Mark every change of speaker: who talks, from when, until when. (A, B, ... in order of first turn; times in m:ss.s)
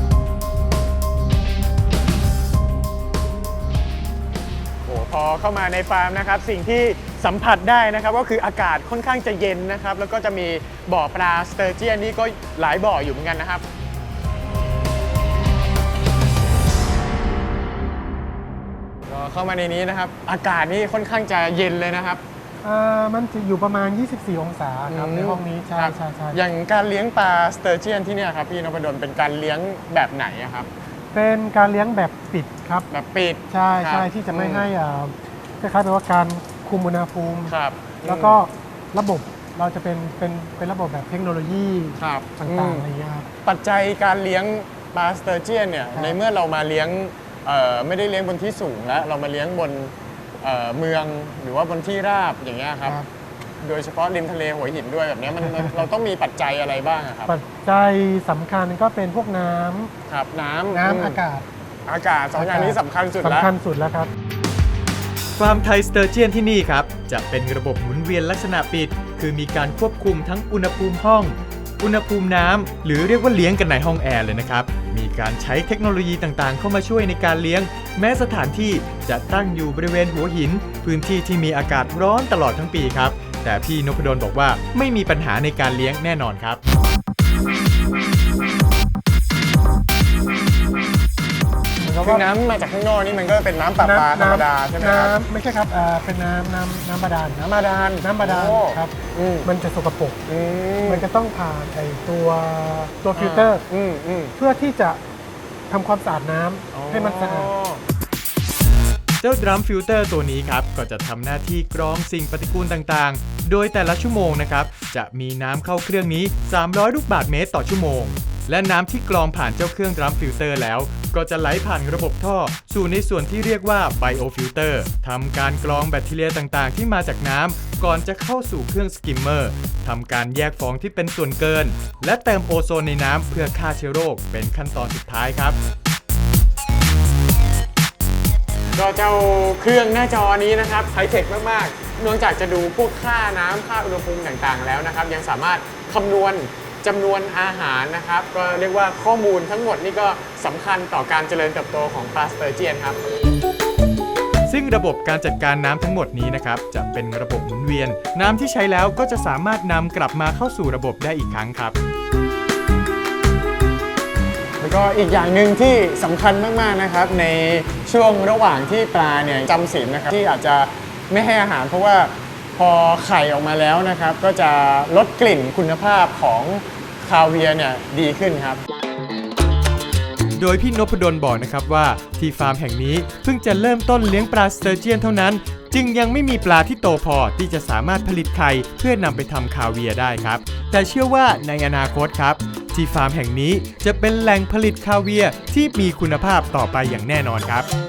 0:04.8-0:13.7 A
0:19.1-0:22.2 A
0:22.6-0:26.4 B
0:24.9-0:30.7 A
0:31.1-0:32.9 B
0:32.9-0:34.7 A
0:33.5-0:43.3 B
0:37.5-0:38.4 A
0:42.0-0:42.9 A
0:43.4-0:53.0 A
0:45.9-0:46.2 B
0:53.6-0:57.3 A
0:57.3-0:59.9 B
1:00.1-1:01.2 A
1:00.7-1:01.4 B
1:01.9-1:03.5 A
1:02.4-1:04.1 B
1:05.4-1:26.6 C
1:31.8-1:32.2 B
1:32.0-1:35.2 A
1:33.8-1:37.4 B
1:37.4-1:39.5 A
1:38.0-1:40.2 B
1:40.3-1:41.1 A
1:40.8-1:43.6 B
1:43.2-1:44.3 A
1:44.4-1:45.0 B
1:45.7-1:47.5 B
1:46.7-1:47.8 A
1:49.2-2:15.6 C
2:18.8-2:33.0 A
2:34.5-2:41.8 C
2:44.6-2:58.6 A
3:00.4-3:17.7 C